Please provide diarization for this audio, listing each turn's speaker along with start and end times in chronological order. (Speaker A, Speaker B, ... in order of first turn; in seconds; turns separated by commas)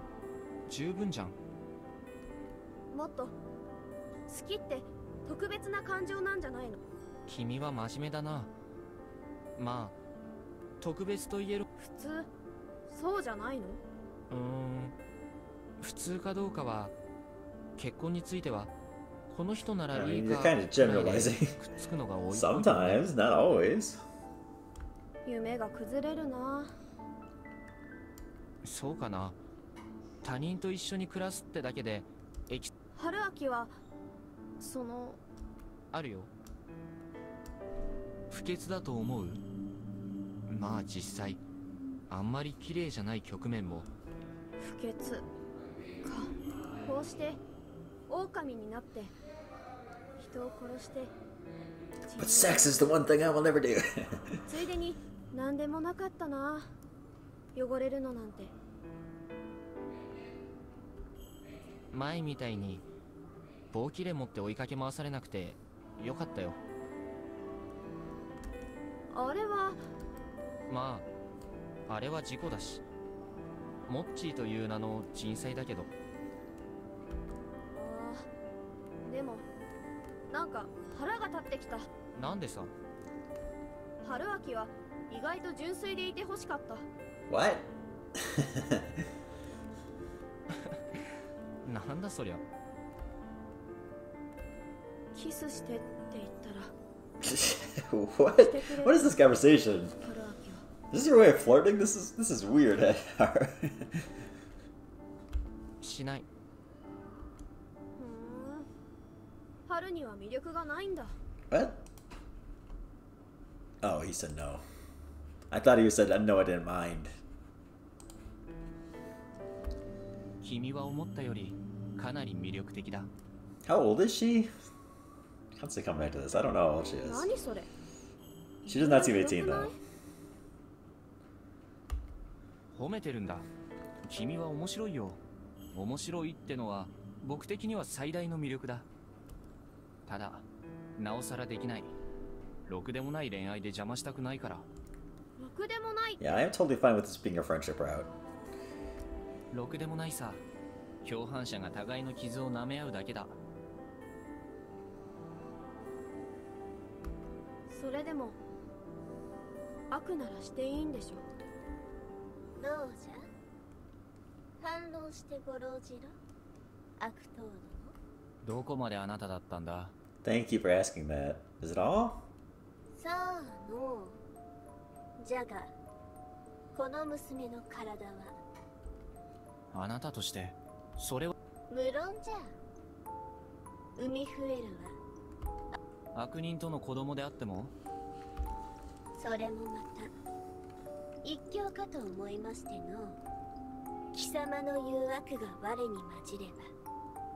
Speaker A: 0.7-1.4, Speaker B: 2.9-3.4, Speaker B: 4.3-6.8, Speaker A: 7.3-8.5, Speaker A: 9.6-9.9, Speaker A: 10.8-11.7, Speaker B: 11.8-12.3, Speaker B: 12.9-13.8, Speaker A: 14.3-14.9, Speaker A: 15.8-16.9, Speaker A: 17.8-18.7, Speaker A: 19.3-23.1, Speaker C: 19.9-21.6, Speaker C: 22.3-24.0, Speaker B: 25.2-26.8, Speaker A: 28.6-29.4, Speaker A: 30.2-32.7, Speaker B: 32.9-33.7, Speaker B: 34.6-35.2, Speaker A: 35.9-36.3, Speaker A: 38.3-39.4, Speaker A: 40.5-41.4, Speaker A: 42.1-43.9, Speaker B: 44.6-45.3, Speaker B: 46.0-47.4, Speaker B: 48.1-49.1, Speaker B: 50.2-51.1, Speaker B: 52.0-52.9, Speaker C: 52.2-54.4, Speaker B: 54.5-56.7, Speaker B: 57.5-58.5, Speaker A: 61.9-62.8, Speaker A: 63.7-66.6, Speaker B: 69.1-69.8, Speaker A: 70.7-71.0, Speaker A: 71.9-72.8, Speaker A: 73.9-75.9, Speaker B: 77.7-78.3, Speaker B: 79.0-79.5, Speaker B: 80.3-81.9, Speaker A: 82.1-82.7, Speaker B: 84.0-86.9, Speaker C: 87.3-88.9, Speaker A: 91.6-92.4, Speaker B: 95.1-96.7, Speaker C: 97.2-99.9, Speaker B: 98.4-99.1, Speaker B: 100.0-100.7, Speaker C: 100.9-104.0, Speaker A: 105.8-106.2, Speaker B: 108.0-108.7, Speaker B: 109.7-111.1, Speaker C: 111.5-111.8, Speaker C: 113.8-114.6, Speaker C: 115.5-117.1, Speaker A: 120.4-123.1, Speaker C: 123.7-124.5, Speaker C: 125.5-127.3, Speaker B: 127.0-127.7, Speaker C: 128.7-129.7, Speaker B: 128.7-129.8, Speaker A: 132.7-133.5, Speaker A: 134.1-135.2, Speaker A: 135.7-138.9, Speaker A: 140.1-140.4, Speaker A: 141.0-141.9, Speaker A: 142.7-144.7, Speaker B: 145.4-146.4, Speaker C: 146.2-148.1, Speaker A: 149.5-150.4, Speaker A: 151.0-153.4, Speaker B: 157.7-158.4, Speaker B: 159.9-161.2, Speaker D: 162.6-163.2, Speaker D: 164.6-166.1, Speaker D: 167.0-167.9, Speaker A: 168.4-169.9, Speaker C: 170.2-172.2, Speaker D: 173.0-174.2, Speaker D: 175.2-175.7, Speaker D: 176.7-178.4, Speaker A: 179.7-181.3, Speaker D: 181.7-182.5, Speaker D: 184.0-184.9, Speaker A: 186.1-187.7, Speaker D: 189.2-190.1, Speaker D: 191.2-193.2, Speaker D: 194.1-196.7